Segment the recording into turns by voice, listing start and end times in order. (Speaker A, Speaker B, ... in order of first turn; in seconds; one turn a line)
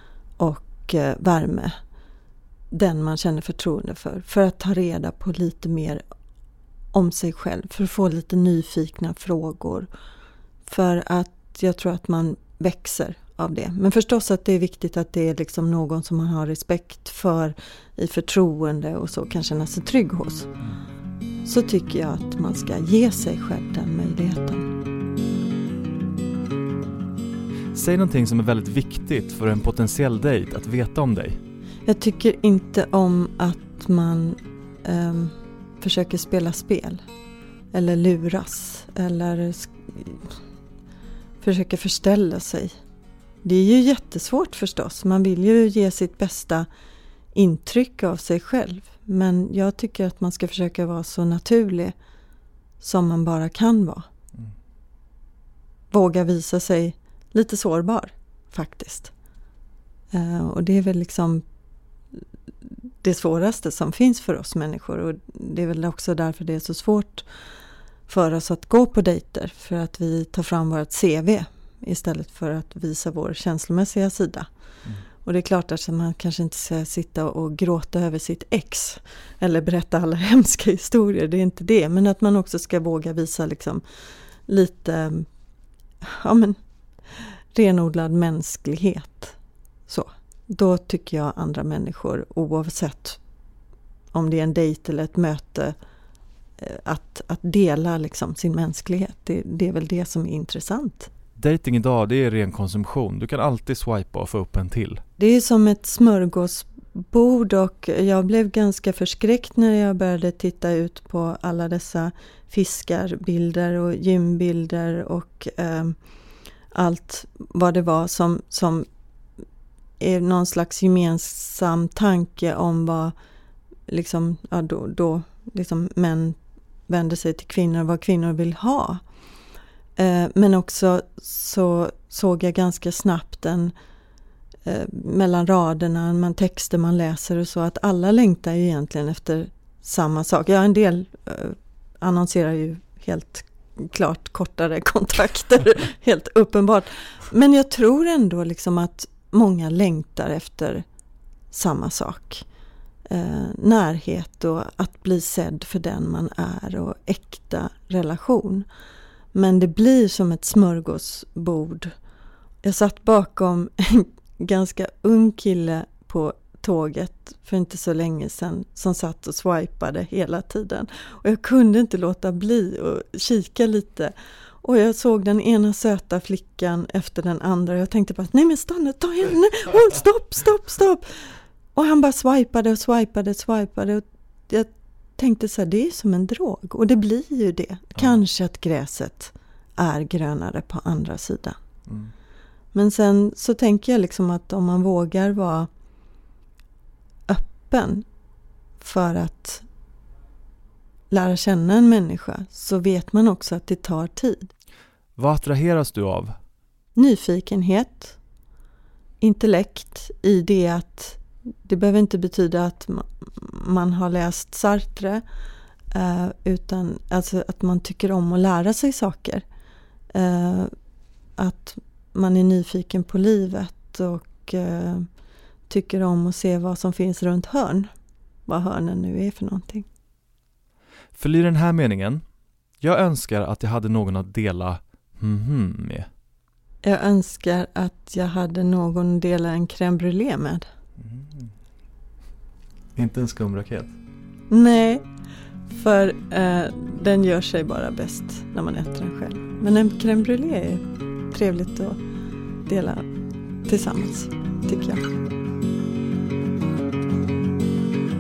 Speaker A: 0.4-1.7
Speaker A: 2.7-6.0
Speaker A: 6.9-9.9
Speaker A: 10.7-20.5
Speaker A: 21.4-24.7
Speaker B: 27.7-31.4
Speaker A: 31.9-37.0
Speaker A: 37.7-40.3
Speaker A: 41.4-42.8
Speaker A: 43.4-46.7
Speaker A: 47.3-51.9
Speaker A: 52.8-54.1
Speaker A: 55.9-59.1
Speaker A: 60.1-61.4
Speaker A: 63.0-67.3
Speaker A: 68.1-74.5
Speaker A: 75.2-83.8
Speaker A: 84.5-85.3
Speaker A: 86.0-86.6
Speaker A: 87.5-89.3
Speaker A: 89.9-93.2
Speaker A: 94.1-95.7
Speaker A: 96.6-101.1
Speaker B: 101.4-105.0
Speaker A: 105.2-116.0
Speaker A: 116.7-118.8
Speaker A: 120.0-123.1
Speaker A: 123.9-129.0
Speaker A: 130.0-133.7
Speaker A: 134.6-150.8
Speaker A: 151.5-152.4
Speaker A: 153.1-158.7
Speaker A: 159.3-161.9
Speaker A: 162.6-191.6
Speaker A: 192.7-195.7
Speaker A: 197.3-198.0
Speaker A: 198.8-199.6
Speaker A: 201.1-204.5
Speaker B: 205.2-206.3
Speaker A: 206.9-208.2
Speaker A: 209.2-215.2
Speaker A: 215.9-219.4
Speaker A: 220.1-220.7
Speaker A: 221.4-225.1
Speaker A: 225.7-227.9
Speaker A: 228.5-229.8
Speaker B: 231.1-232.2
Speaker B: 232.8-236.1
Speaker A: 236.8-240.7
Speaker B: 241.0-241.4
Speaker B: 242.9-243.9
Speaker A: 244.5-245.0
Speaker A: 245.7-252.0
Speaker A: 252.7-253.1
Speaker A: 253.7-255.0